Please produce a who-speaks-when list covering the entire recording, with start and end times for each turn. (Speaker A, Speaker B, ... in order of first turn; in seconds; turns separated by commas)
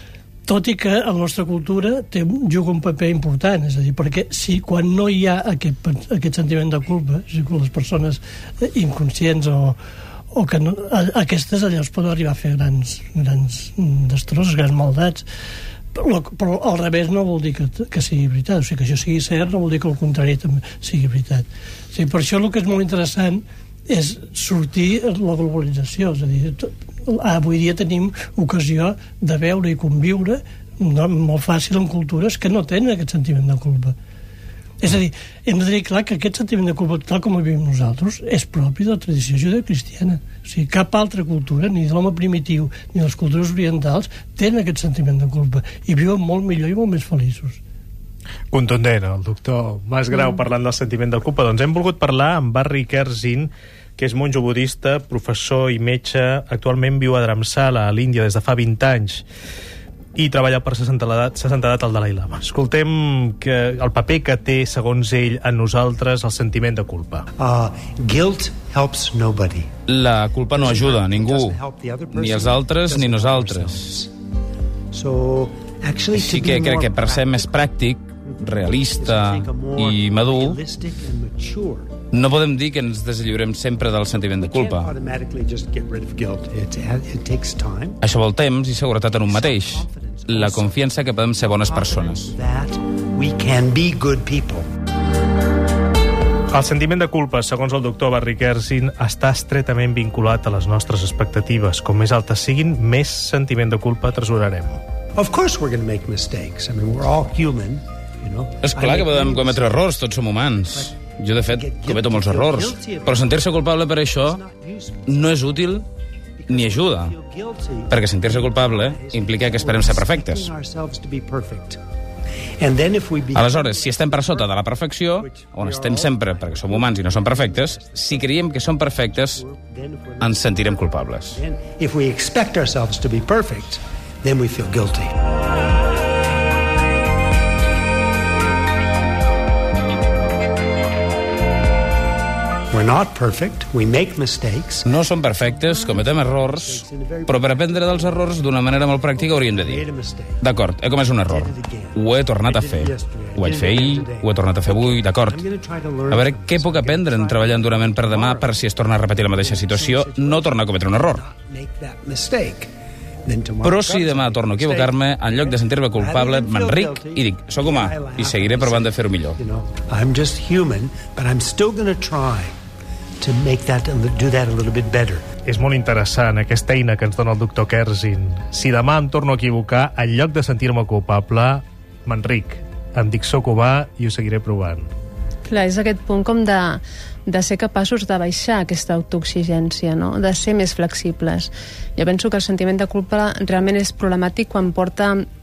Speaker A: 0.5-9.8, Speaker A: 10.3-15.2, Speaker A: 15.9-34.0, Speaker A: 34.8-47.6, Speaker B: 48.5-59.2, Speaker B: 60.1-67.3, Speaker C: 67.4-69.7, Speaker D: 69.9-71.6, Speaker C: 70.5-74.1, Speaker D: 72.1-73.9, Speaker C: 74.9-77.7, Speaker D: 76.1-80.6, Speaker C: 78.2-82.0, Speaker D: 82.1-84.9, Speaker C: 84.4-88.0, Speaker D: 88.0-92.3, Speaker C: 89.2-94.7, Speaker B: 96.5-104.8, Speaker C: 105.2-110.0, Speaker D: 108.6-114.4, Speaker C: 110.7-113.6, Speaker C: 114.1-115.7, Speaker D: 115.0-115.8, Speaker C: 116.4-121.8, Speaker D: 116.5-117.2, Speaker D: 117.9-120.5, Speaker C: 122.6-124.6, Speaker D: 123.3-129.4, Speaker C: 125.2-135.2, Speaker D: 130.2-131.4, Speaker C: 142.7-150.4, Speaker D: 144.8-149.9, Speaker D: 150.4-155.4, Speaker C: 151.2-162.7, Speaker D: 156.1-161.2, Speaker C: 163.2-172.5, Speaker D: 163.6-169.4, Speaker C: 173.2-175.2, Speaker B: 175.4-184.9, Speaker E: 185.5-195.2